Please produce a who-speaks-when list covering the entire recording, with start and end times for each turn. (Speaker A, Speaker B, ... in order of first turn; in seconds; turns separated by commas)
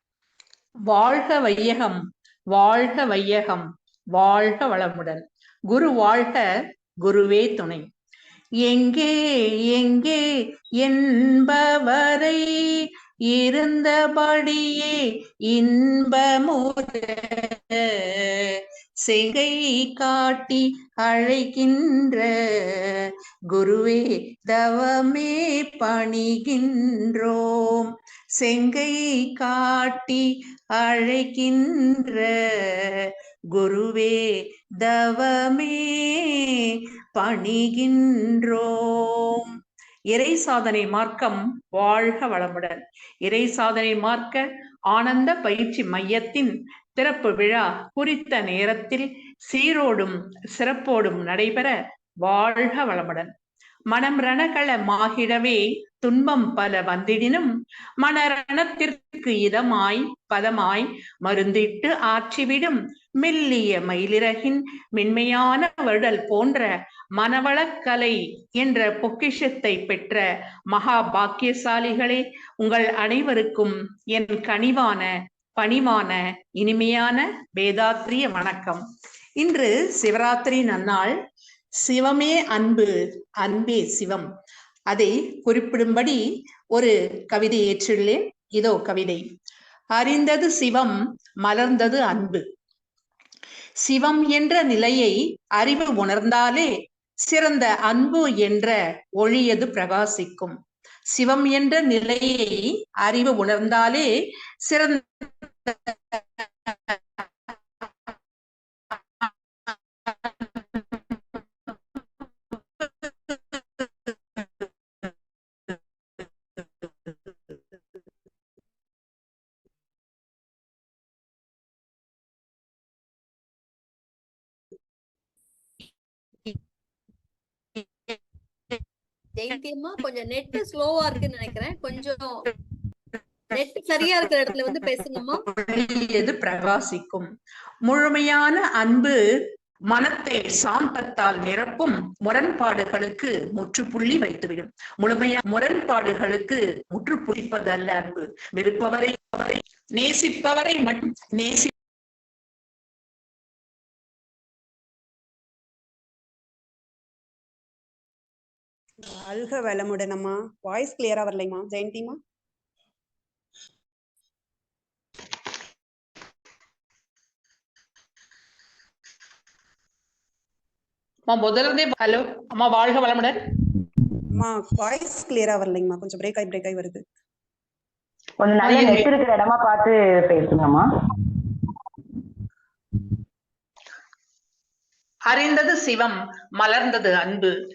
Speaker A: 0.9-2.0, Speaker A: 2.5-6.5, Speaker A: 7.0-7.8, Speaker A: 8.6-10.2, Speaker A: 10.8-30.2, Speaker A: 30.8-39.5, Speaker A: 40.1-53.3, Speaker A: 53.9-57.5, Speaker A: 58.0-78.8, Speaker A: 79.4-81.1, Speaker A: 81.8-84.2, Speaker A: 84.9-86.2, Speaker A: 86.7-89.2, Speaker A: 89.9-92.4, Speaker A: 93.8-96.7, Speaker A: 97.2-100.5, Speaker A: 101.1-104.1, Speaker A: 104.6-107.0, Speaker A: 110.1-111.0, Speaker A: 112.8-113.4, Speaker B: 129.4-132.2, Speaker B: 134.0-135.4, Speaker A: 135.5-137.3, Speaker A: 137.8-139.2, Speaker A: 139.9-151.7, Speaker C: 159.1-162.2, Speaker A: 171.3-173.4, Speaker C: 174.3-177.0, Speaker D: 178.4-180.9, Speaker A: 178.6-179.1, Speaker A: 185.3-187.5